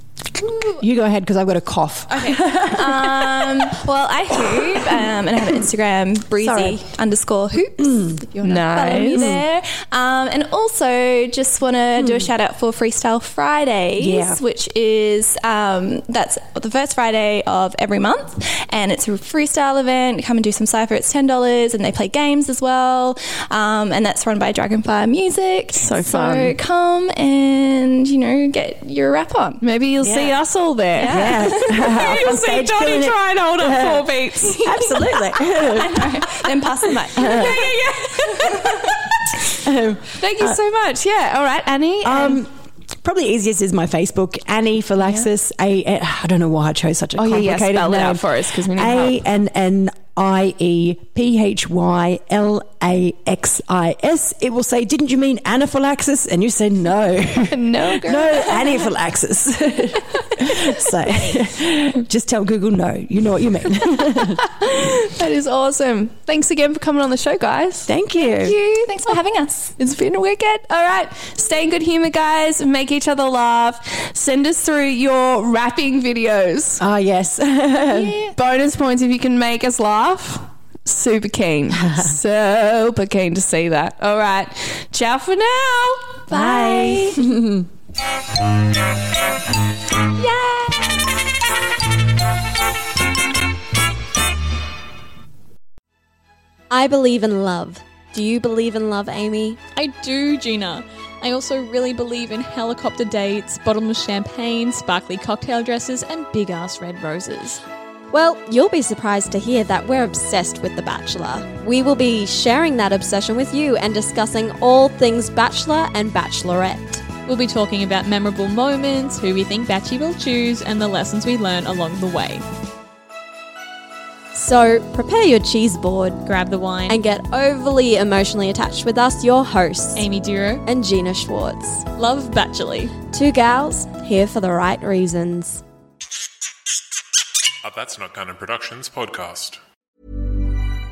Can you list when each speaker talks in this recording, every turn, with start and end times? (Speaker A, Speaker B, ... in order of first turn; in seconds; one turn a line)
Speaker A: 0.6-3.8
Speaker B: 2.1-29.6
Speaker A: 6.4-6.8
Speaker A: 7.8-8.2
Speaker C: 8.4-9.4
Speaker A: 9.1-9.4
Speaker A: 12.0-12.3
Speaker A: 14.0-14.4
Speaker C: 25.8-26.6
Speaker C: 29.6-34.7
Speaker A: 30.0-30.4
Speaker B: 30.9-31.9
Speaker A: 31.0-36.0
Speaker B: 34.4-39.0
Speaker C: 37.0-39.5
Speaker A: 37.2-37.5
Speaker A: 39.6-40.6
Speaker C: 40.2-42.4
Speaker A: 42.0-42.5
Speaker A: 43.0-64.4
Speaker C: 47.2-49.2
Speaker C: 57.5-58.8
Speaker C: 64.1-67.9
Speaker A: 67.9-68.6
Speaker B: 68.2-69.7
Speaker C: 69.8-76.8
Speaker A: 76.8-78.2
Speaker B: 77.9-78.3
Speaker C: 78.3-86.2
Speaker B: 86.3-87.2
Speaker A: 86.3-87.7
Speaker B: 90.2-90.9
Speaker D: 96.7-99.6
Speaker E: 99.7-107.6
Speaker D: 108.1-117.1
Speaker E: 117.2-122.5
Speaker D: 124.3-126.2
Speaker E: 126.2-127.0
Speaker D: 126.9-130.1
Speaker E: 129.9-130.7
Speaker D: 130.7-131.9
Speaker E: 131.9-133.0
Speaker D: 133.0-135.6
Speaker F: 137.6-139.6